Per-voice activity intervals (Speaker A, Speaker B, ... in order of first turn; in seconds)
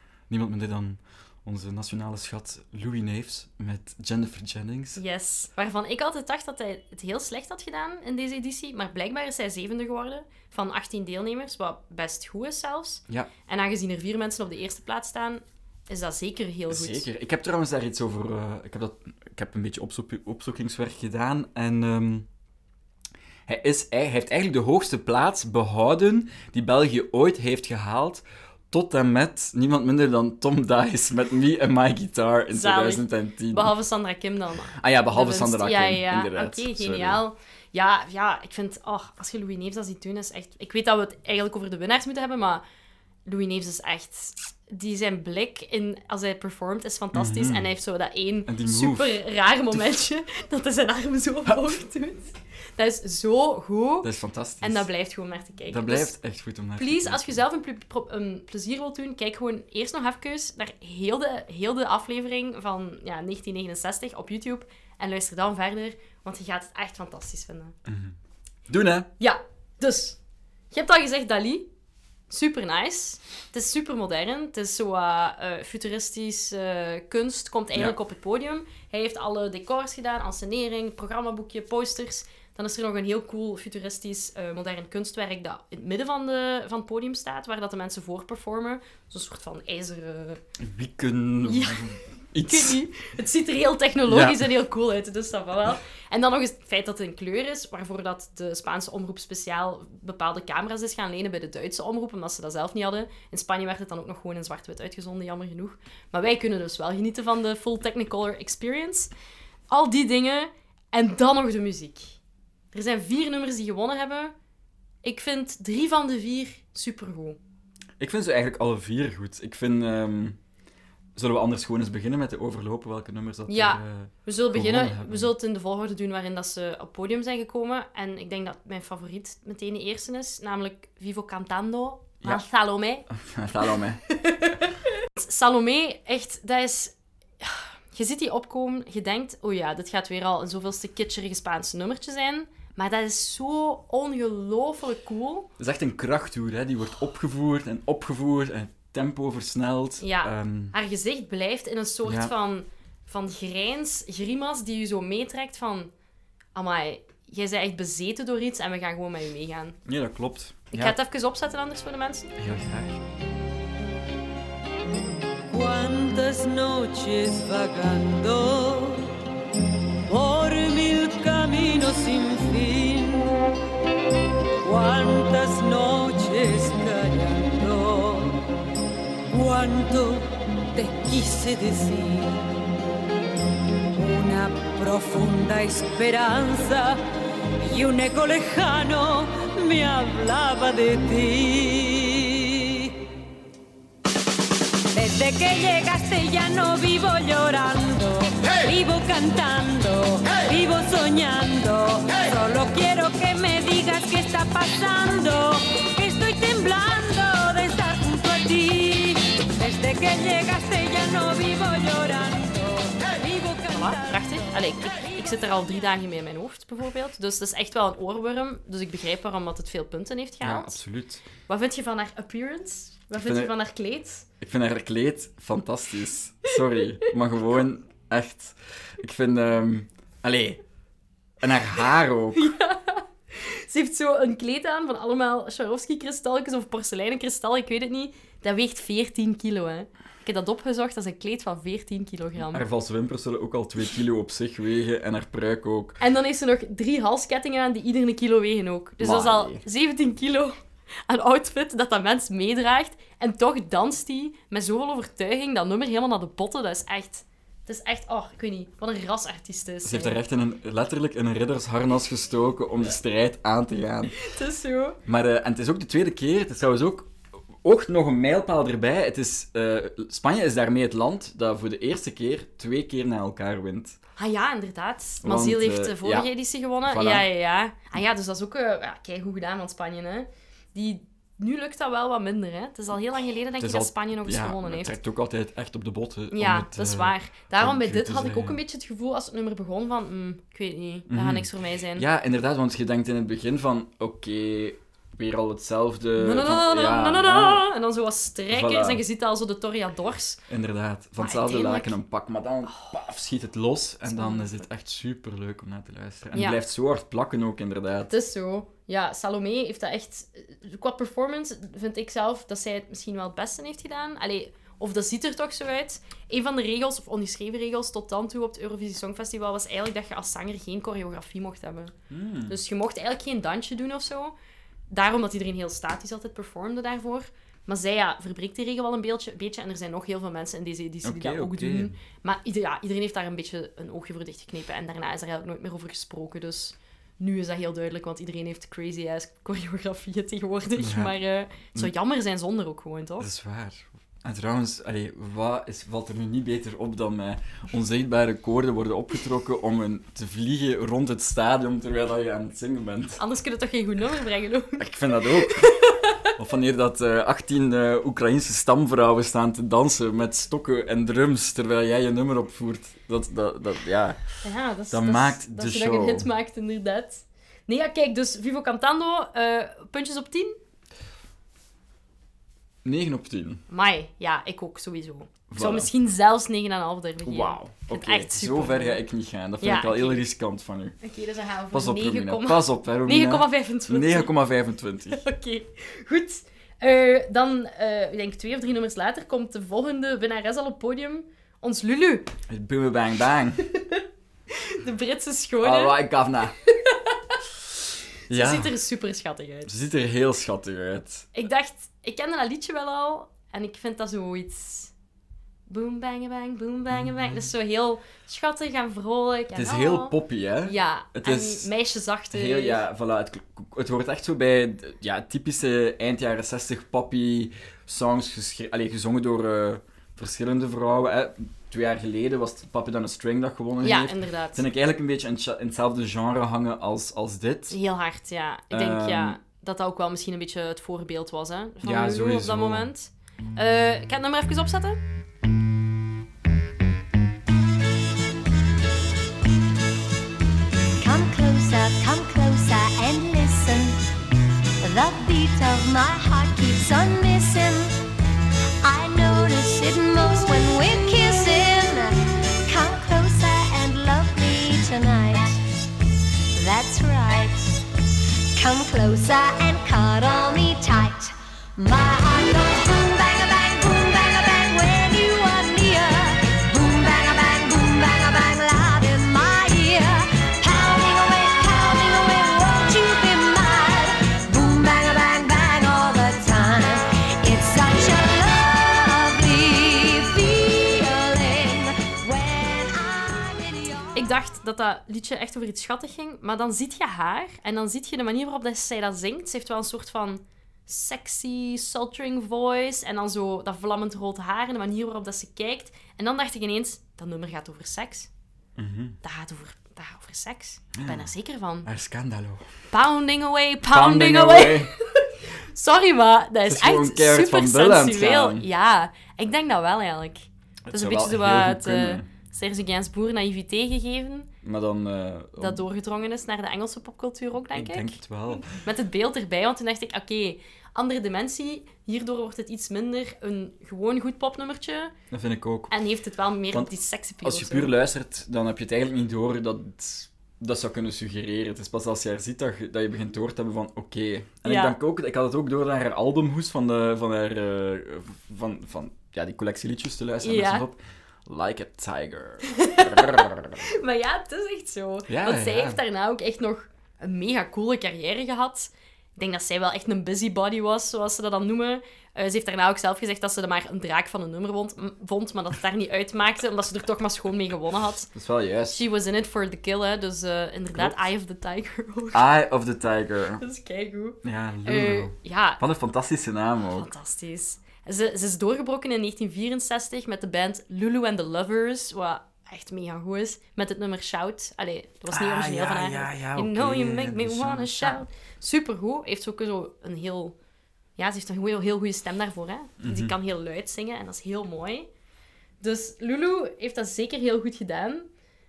Speaker A: 0.3-5.0, 16.7-22.3, 23.5-33.7, 34.8-37.2, 47.1-47.7, 48.5-49.2, 54.0-54.9, 55.7-57.4, 67.9-68.2, 68.7-69.1, 90.6-92.8, 94.1-94.5, 118.0-120.4, 121.2-125.3, 133.1-134.0, 145.6-150.8, 152.1-152.3, 159.9-161.0, 162.4-163.0, 220.4-221.2, 223.2-223.5, 224.4-230.6, 231.4-232.5, 242.4-246.0, 249.0-249.6, 259.8-264.1, 265.1-267.1, 267.6-274.0, 275.2-276.3, 276.9-277.3, 283.6-288.6, 291.1-297.6, 298.5-299.0, 300.5-308.1, 322.1-322.6, 331.0-331.9, 340.8-341.2, 343.2-353.2, 354.8-355.8, 356.4-366.3, 372.9-373.6, 375.5-375.9, 377.2-381.0, 381.7-385.2, 392.5-393.6, 395.6-396.6, 398.3-398.8, 399.7-401.3, 406.9-407.5, 409.5-411.7, 412.3-427.8, 428.7-429.4, 431.8-432.9, 498.8-499.2, 501.0-501.3, 501.9-502.7, 503.9-504.9, 506.7-508.7, 510.9-512.3, 514.6-515.9, 517.7-518.8, 525.3-525.9, 527.4-543.9, 545.3-546.0, 558.4-559.0, 560.9-561.2, 562.3-563.6, 564.4-567.1, 575.3-578.2, 583.0-583.4
Speaker B: 5.0-17.1, 32.5-42.6, 43.3-56.1, 56.8-67.8, 69.2-70.2, 70.7-71.7, 72.3-90.4, 91.5-109.1, 109.7-112.2, 112.7-114.3, 115.0-117.4, 123.5-133.1, 134.1-145.5, 150.0-155.9, 156.6-159.8, 160.7-162.4, 213.7-220.8, 221.5-224.3, 232.3-242.7, 246.0-260.2, 264.2-265.0, 274.2-285.0, 286.3-292.1, 296.2-300.4, 301.2-302.0, 304.1-304.5, 306.3-306.6, 308.1-321.9, 322.5-324.3, 324.9-343.3, 353.2-356.3, 364.4-370.6, 373.7-379.0, 379.6-380.2, 381.0-384.3, 385.1-392.3, 393.7-396.0, 396.7-397.4, 398.3-399.7, 401.3-404.9, 405.7-412.8, 423.8-424.6, 427.7-435.0, 484.1-498.3, 499.2-501.9, 502.9-514.5, 515.6-525.1, 525.9-527.9, 534.6-535.0, 540.4-540.9, 542.7-558.3, 558.9-562.4, 563.6-565.8, 566.9-580.5, 581.2-585.1, 585.8-588.3
Speaker C: 165.5-169.1, 170.1-173.3, 174.6-178.4, 179.3-182.4, 184.0-187.0, 187.6-192.9, 194.9-214.4
Speaker D: 441.0-444.0, 444.8-448.0, 448.8-455.6, 456.5-457.9, 458.5-484.3